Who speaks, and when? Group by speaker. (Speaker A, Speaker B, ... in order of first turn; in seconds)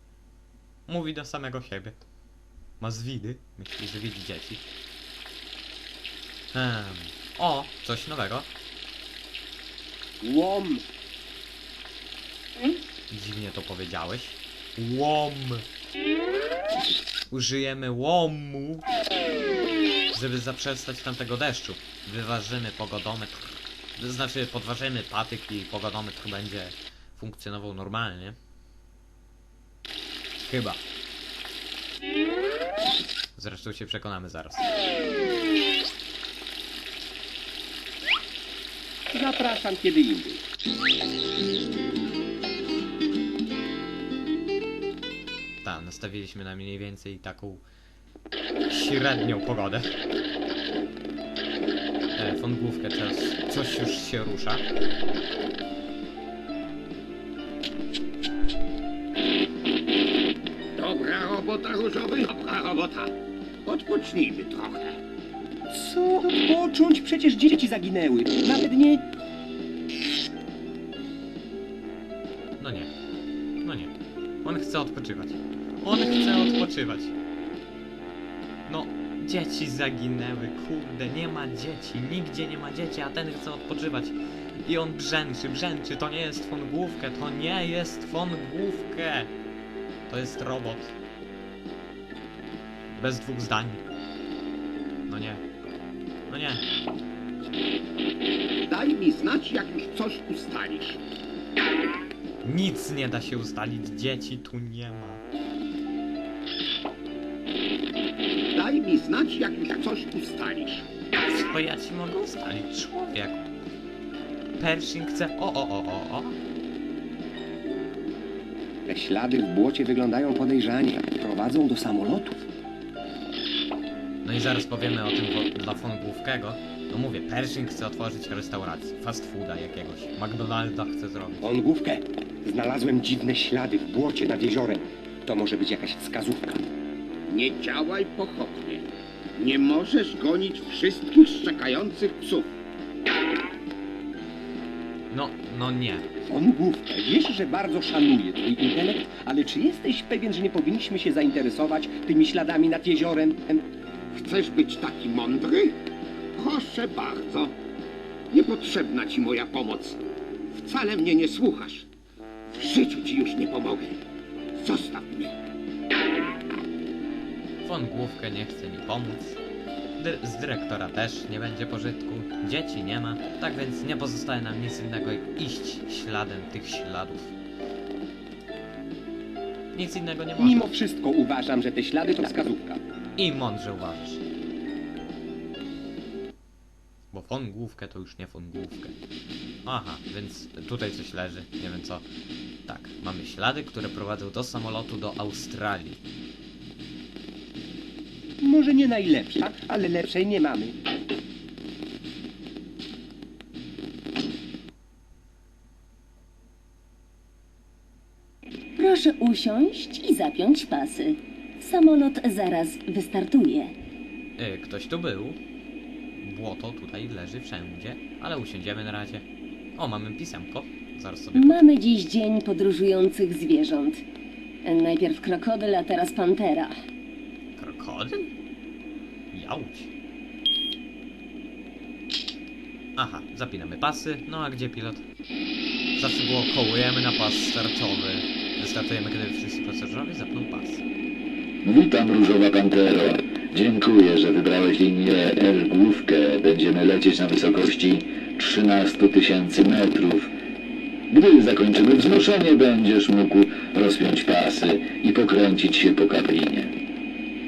Speaker A: 0.9-2.0, 2.8-4.6, 6.5-8.5, 13.1-15.7, 17.3-18.9, 20.1-28.4, 30.4-30.8, 33.4-34.7, 45.6-47.6, 48.7-50.0, 52.2-54.6, 72.6-72.9, 73.6-73.9, 74.4-77.2, 78.7-89.3, 90.1-91.0, 93.0-93.8, 95.1-95.4, 96.3-96.6, 102.4-105.2, 111.1-113.5, 114.6-116.4, 124.2-131.6, 145.1-146.1, 167.6-169.4, 170.0-177.3, 179.7-180.7, 183.2-184.2, 187.1-188.9, 189.7-192.1, 192.7-196.0, 214.4-215.4, 216.2-219.2, 219.8-221.7, 227.6-228.3, 229.3-229.9, 233.0-235.1, 235.9-240.8
Speaker B: 10.2-10.8, 39.1-40.4, 65.7-69.0, 118.9-122.4, 131.4-136.7, 146.2-153.7, 180.4-182.8, 198.4-200.8
Speaker C: 60.8-63.1, 63.6-65.0, 98.7-101.0, 108.5-110.9, 137.3-142.5, 154.1-155.8, 156.3-157.6, 158.3-161.9, 162.5-164.0, 164.6-165.3
Speaker D: 208.8-213.7, 221.3-224.0, 224.6-226.7
Speaker E: 241.6-250.3, 251.1-256.8